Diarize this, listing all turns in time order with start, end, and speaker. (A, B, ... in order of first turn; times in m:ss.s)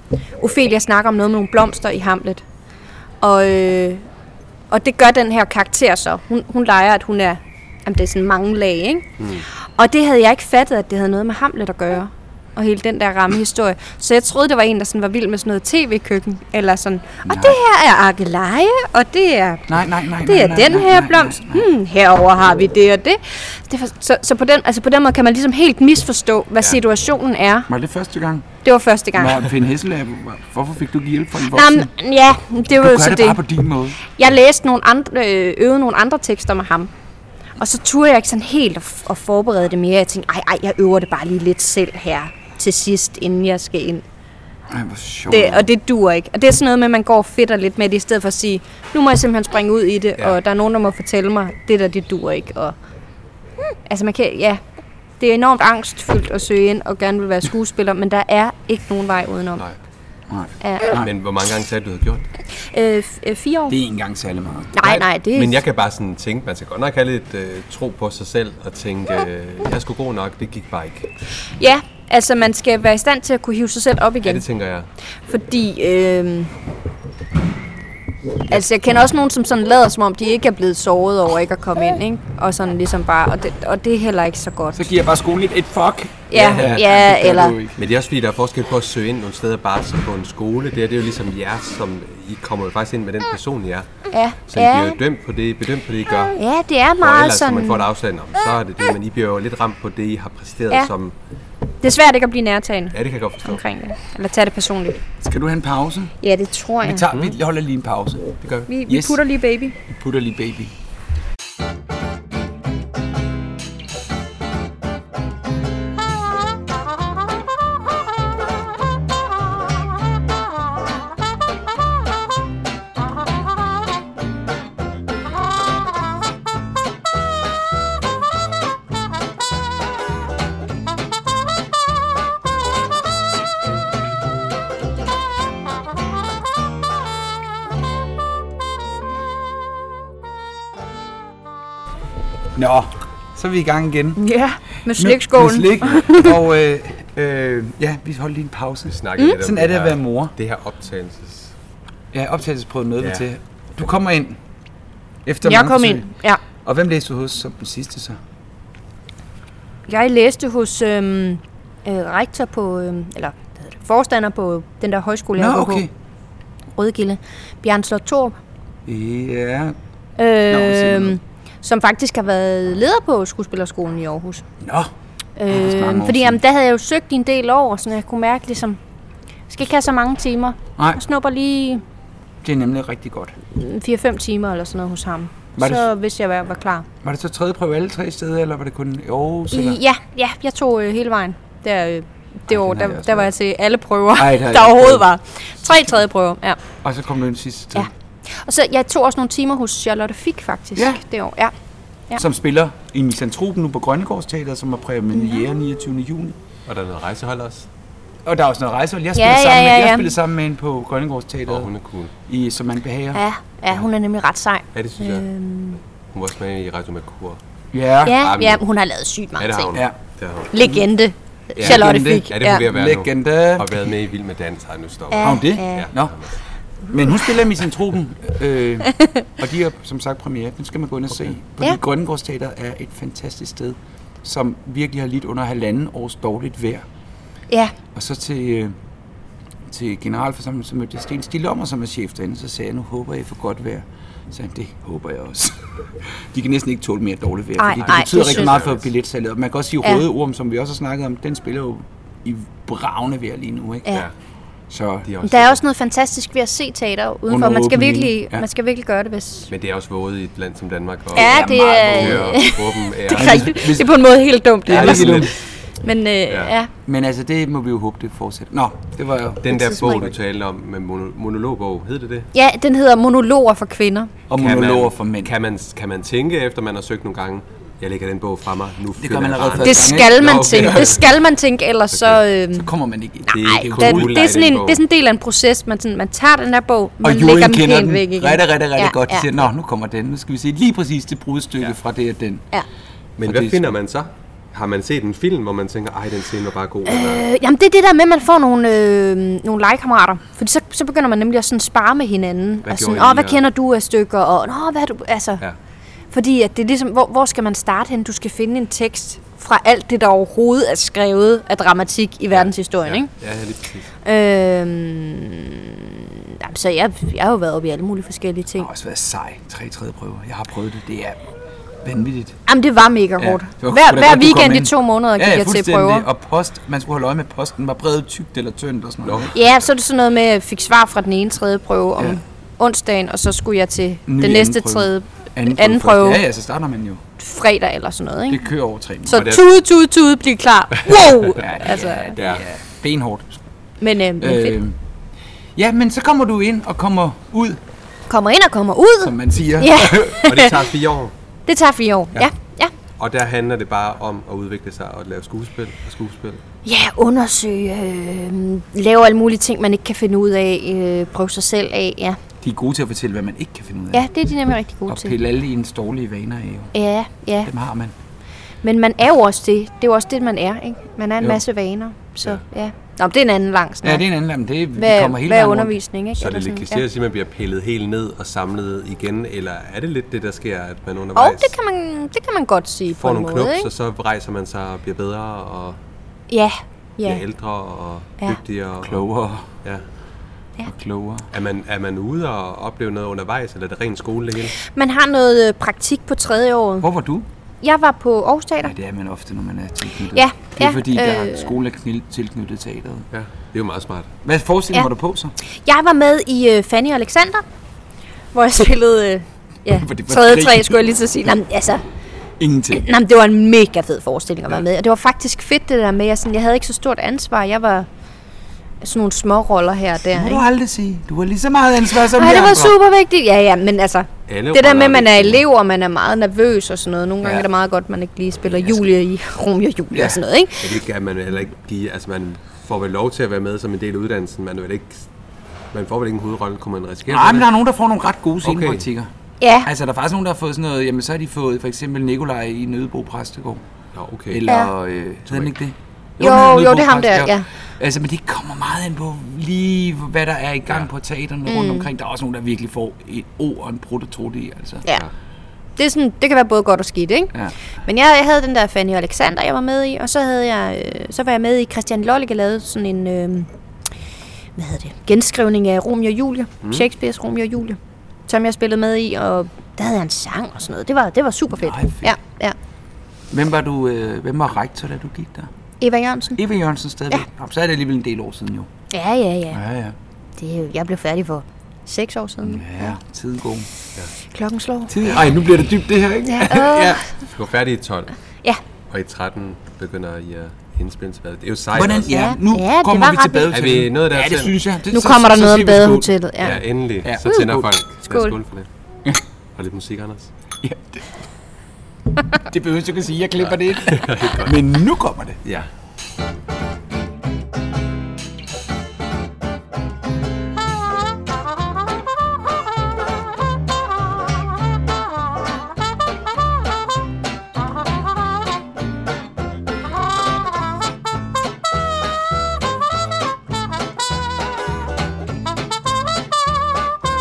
0:00.4-0:02.4 A
0:03.2-0:04.0 A
0:04.7-0:09.1 A
0:09.2-0:09.4 B
0:09.8-0:19.7 A
0:17.2-0:17.6 C
0:19.7-0:21.6 C
0:20.2-0:27.7 A
0:27.7-0:28.5 C
0:28.6-0:29.5 A
0:29.1-0:31.9 C
0:31.4-0:33.4 A
0:32.7-0:34.0 C
0:34.0-0:36.9 A
0:37.6-0:44.0 A
0:44.7-0:45.7 C
0:45.3-0:52.7 A
0:53.8-0:54.6 A
0:55.2-0:59.6 A
1:00.3-1:01.1 C
1:00.6-1:00.9 A
1:00.9-1:02.3 B
1:02.6-1:03.8 A
1:03.7-1:04.7 C
1:04.7-1:05.6 A
1:04.8-1:11.1 B
1:11.6-1:14.4 A
1:14.2-1:14.9 B
1:15.3-1:16.5 A
1:18.5-1:24.9 A
1:24.7-1:27.8 C
1:26.3-1:27.6 A
1:26.3-1:26.8 B
1:27.8-1:36.4 B
1:34.1-1:35.0 A
1:36.3-1:37.8 A
1:37.0-1:41.2 B
1:41.8-1:45.0 A
1:42.9-1:43.6 B
1:45.2-1:46.1 C
1:46.2-1:47.1 A
1:46.8-1:49.2 C
1:48.4-1:48.7 B
1:48.7-1:49.8 A
1:49.8-1:50.7 C
2:22.5-2:24.2 C
2:24.2-2:26.4 A
2:25.0-2:30.3 C
2:28.9-2:31.5 B
2:32.1-2:34.4 C
2:35.2-2:36.1 C
2:35.4-2:36.4 A
2:36.6-2:38.2 C
2:39.9-2:45.8 A
2:45.4-2:45.9 C
2:46.8-2:48.4 A
2:48.8-2:49.8 C
2:50.2-2:54.4 A
2:50.5-2:51.2 C
2:54.6-2:54.9 C
2:55.4-2:58.8 A
2:55.5-2:56.4 C
2:59.5-3:01.8 A
3:02.4-3:03.4 C
3:03.5-3:06.8 A
3:05.6-3:05.8 C
3:07.0-3:09.8 C
3:09.5-3:16.6 A
3:12.5-3:13.3 C
3:14.2-3:15.1 C
3:16.8-3:17.9 C
3:17.8-3:21.5 A
3:20.8-3:21.0 C
3:22.2-3:26.4 C
3:25.1-3:25.5 A
3:26.6-3:27.7 B
3:28.2-3:31.7 C
3:29.1-3:30.1 A
3:31.5-3:32.1 B
3:32.2-3:33.2 C
3:33.1-3:35.8 A
3:34.7-3:35.2 B
3:36.1-3:37.4 B
3:37.7-3:38.2 C
3:38.0-3:39.7 A
3:38.1-3:38.6 B
3:39.4-3:40.5 B
3:40.5-3:42.6 A
3:41.6-3:46.4 B
3:41.6-3:43.8 C
3:45.1-3:45.9 A
3:45.2-3:46.2 C
3:46.9-3:56.8 C
3:48.9-3:49.2 A
3:57.9-3:58.7 C
3:59.7-4:13.9 C
4:07.6-4:08.5 A
4:07.8-4:08.8 B
4:14.7-4:15.1 C
4:15.0-4:15.6 B
4:15.2-4:19.5 A
4:17.3-4:18.4 C
4:19.5-4:23.6 B
4:21.1-4:25.3 A
4:21.1-4:22.4 C
4:23.1-4:24.0 C
4:24.6-4:25.3 C
4:24.7-4:25.4 B
4:25.8-4:26.7 A
4:26.3-4:26.6 B
4:26.8-4:29.7 C
4:29.4-4:32.3 B
4:29.5-4:30.0 A
4:32.3-4:34.1 A
4:34.3-4:35.3 C
4:34.4-4:41.1 B
4:39.0-4:40.9 C
4:39.6-4:42.7 A
4:41.9-4:42.2 B
4:42.5-4:44.2 C
4:43.2-4:49.3 A
4:43.3-4:44.8 B
4:47.0-4:52.4 C
4:53.2-4:57.2 B
4:53.2-4:53.7 C
4:56.8-5:05.4 A
5:02.6-5:03.4 B
5:06.1-5:13.1 A
5:12.3-5:13.9 B
5:14.0-5:18.7 A
5:18.6-5:21.2 C
5:21.8-5:22.4 C
5:22.5-5:26.0 A
5:23.2-5:29.4 C
5:29.0-5:29.6 B
5:29.3-5:36.2 A
5:34.1-5:37.0 C
5:37.2-5:38.4 A
5:38.3-5:39.3 C
5:39.1-5:42.1 A
5:39.1-5:39.4 B
5:41.3-5:43.4 C
5:42.1-5:42.4 B
5:43.8-5:44.6 A
5:44.2-5:44.8 C
5:45.6-5:47.6 C
5:48.1-5:50.7 A
5:49.0-5:50.2 C
5:50.2-5:51.1 B
5:51.5-5:52.7 A
5:53.0-5:56.4 B
5:56.6-6:02.2 A
6:02.4-6:04.1 C
6:03.9-6:05.2 A
6:04.9-6:06.7 C
6:06.7-6:07.5 A
6:07.4-6:07.9 C
6:08.6-6:14.0 A
6:13.8-6:15.8 C
6:14.8-6:16.8 A
6:16.2-6:21.6 B
6:21.1-6:23.7 A
6:23.0-6:25.8 B
6:26.3-6:27.2 A
6:27.0-6:29.0 B
6:28.8-6:29.5 C
6:30.6-6:31.3 C
6:31.3-6:34.5 B
6:34.6-6:36.9 A
6:36.8-6:37.2 C
6:37.6-6:38.7 A
6:38.6-6:43.1 C
6:40.1-6:41.5 A
6:43.1-6:44.1 B
6:44.2-6:45.3 C
6:45.6-6:47.4 A
6:48.3-6:51.8 A
6:49.8-6:50.9 C
6:52.4-6:52.8 C
6:52.7-6:57.9 A
6:58.8-7:00.4 A
7:00.0-7:02.8 C
7:02.0-7:10.7 A
7:04.3-7:05.4 B
7:09.9-7:10.2 C
7:10.6-7:15.1 B
7:15.7-7:17.5 B
7:17.1-7:19.1 C
7:18.4-7:18.8 B
7:19.4-7:19.7 A
7:19.6-7:23.6 C
7:23.9-7:24.4 B
7:24.3-7:34.8 C
7:24.5-7:24.7 A
7:25.3-7:25.5 B
7:26.2-7:27.5 A
7:31.5-7:31.9 A
7:35.8-7:37.3 A
7:37.8-7:43.5 A
7:44.6-7:52.5 A
7:51.6-7:52.2 C
7:53.3-7:55.5 C
7:55.8-7:56.4 A
7:56.4-7:58.7 C
7:58.9-7:59.6 A
7:59.5-7:59.9 C
8:00.4-8:02.9 A
8:02.4-8:03.7 C
8:04.3-8:05.2 A
8:04.9-8:07.0 C
8:06.2-8:07.1 A
8:06.9-8:08.1 B
8:08.9-8:12.2 B
8:11.7-8:16.1 C
8:12.1-8:13.5 A
8:13.5-8:14.6 B
8:14.9-8:16.6 A
8:16.4-8:18.7 B
8:17.0-8:17.7 C
8:17.2-8:18.4 A
8:19.6-8:20.3 B
8:20.6-8:21.0 C
8:22.4-8:25.4 C
8:23.4-8:24.6 B
8:25.4-8:25.7 B